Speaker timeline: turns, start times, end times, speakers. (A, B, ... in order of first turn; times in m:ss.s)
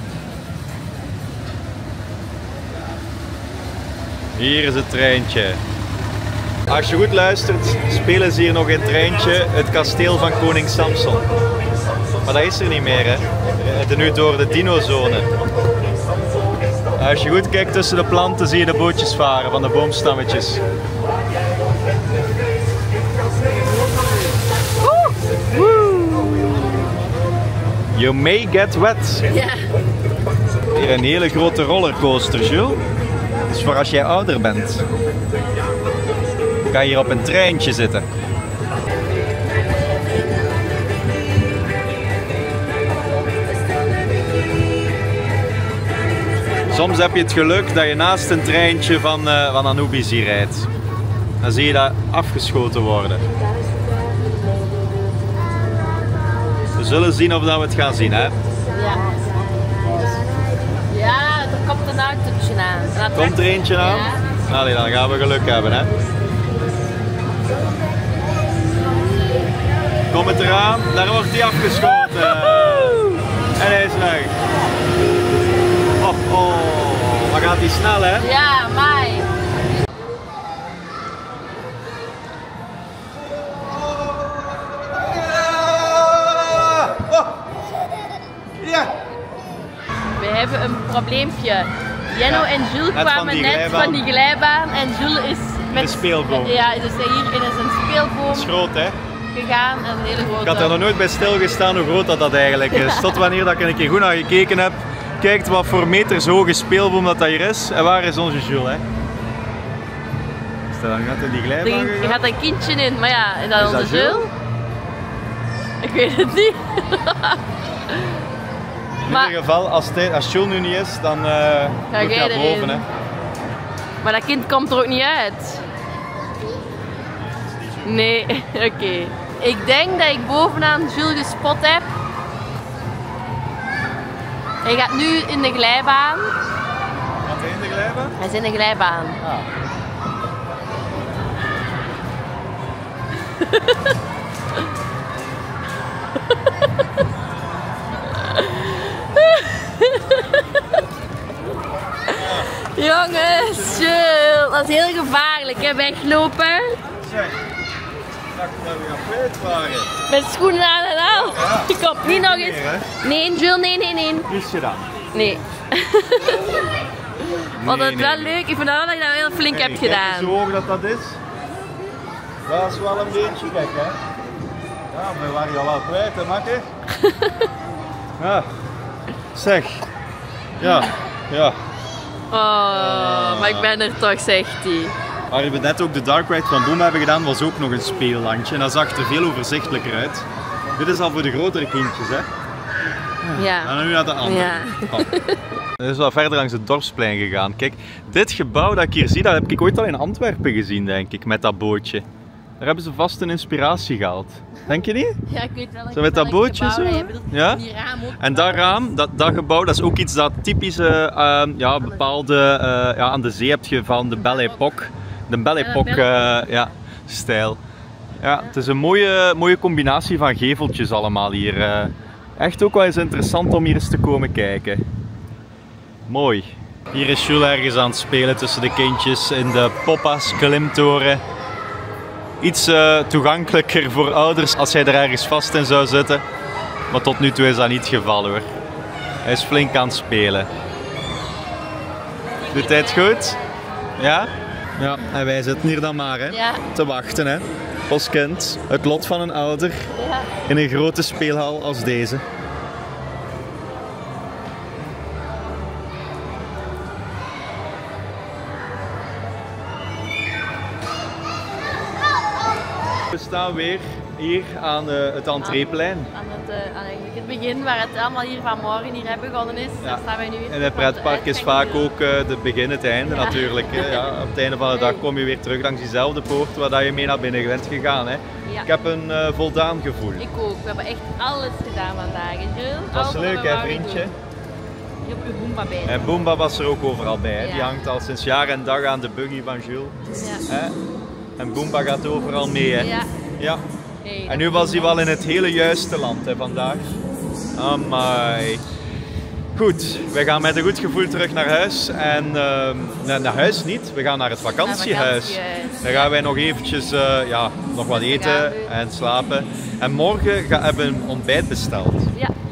0:04.4-0:05.6 A
0:06.7-0:11.2 A
0:12.2-0:15.3 A
0:17.0-0:20.6 A
0:24.8-0:26.4 B
0:27.9-0:29.2 A
0:29.3-0:29.6 B
0:30.7-0:32.8 A
0:33.5-0:34.8 A
0:36.7-0:38.0 A
0:46.7-0:50.7 A
0:51.4-0:53.2 A
0:53.8-0:54.3 B
0:56.8-0:58.3 A
0:58.7-0:59.4 B
1:00.9-1:04.2 B
1:03.1-1:05.9 A
1:10.1-1:13.0 A
1:11.9-1:13.2 B
1:13.6-1:14.3 A
1:16.0-1:18.3 A
1:18.2-1:19.3 B
1:23.9-1:27.4 A
1:28.6-1:29.0 A
1:30.2-1:38.5 B
1:32.2-1:34.0 A
1:35.7-1:36.6 A
1:38.3-1:39.0 A
1:39.3-1:40.8 B
1:40.4-1:48.8 A
1:42.7-1:43.2 B
1:50.7-1:52.2 A
1:51.6-1:54.2 B
1:53.6-1:54.3 A
1:55.8-1:58.2 B
1:59.0-2:02.8 A
1:59.1-1:59.3 B
2:01.9-2:02.8 B
2:04.0-2:05.6 B
2:07.4-2:08.0 A
2:07.8-2:11.9 B
2:14.6-2:16.3 B
2:17.2-2:18.1 A
2:18.2-2:19.2 B
2:23.4-2:23.7 B
2:28.2-2:30.4 B
2:32.1-2:32.5 A
2:32.8-2:36.8 B
2:33.1-2:34.2 A
2:37.0-2:37.4 A
2:38.3-2:39.9 A
2:40.1-2:44.3 B
2:41.1-2:42.8 A
2:44.3-2:44.9 A
2:45.1-2:46.5 B
2:47.6-2:48.4 A
2:47.6-2:50.4 B
2:49.5-2:51.2 A
2:52.4-2:54.0 A
2:54.9-2:56.7 A
2:57.0-2:57.5 B
2:58.2-2:58.5 A
2:59.3-2:59.8 A
3:00.6-3:01.6 A
3:02.3-3:04.9 B
3:02.7-3:03.7 A
3:05.3-3:10.2 A
3:10.8-3:12.3 A
3:13.2-3:15.1 A
3:13.4-3:15.4 B
3:15.8-3:22.0 A
3:22.6-3:25.2 A
3:25.3-3:28.8 B
3:25.9-3:27.6 A
3:28.2-3:37.6 A
3:35.6-3:36.5 B
3:38.2-3:44.8 A
3:46.1-3:51.2 A
3:52.4-3:56.2 A
3:56.9-3:58.5 A
3:59.2-4:00.5 A
4:02.5-4:03.2 B
4:02.5-4:03.4 A
4:04.0-4:09.9 A
4:06.3-4:06.6 B
4:10.0-4:10.3 B
4:10.4-4:12.2 A
4:23.1-4:26.1 A
4:25.4-4:31.9 B
4:29.8-4:40.2 A
4:33.1-4:34.1 B
4:34.7-4:35.0 B
4:40.2-4:44.1 B
4:42.9-4:44.1 A
4:45.0-4:46.2 B
4:45.8-4:50.7 A
4:47.4-4:47.7 B
4:50.1-4:50.4 B
4:51.4-4:53.6 A
4:52.8-4:53.1 B
4:54.0-4:55.0 B
4:54.3-4:56.9 A
4:57.6-4:58.6 A
4:59.5-5:12.1 A
5:04.6-5:06.1 B
5:07.9-5:08.7 B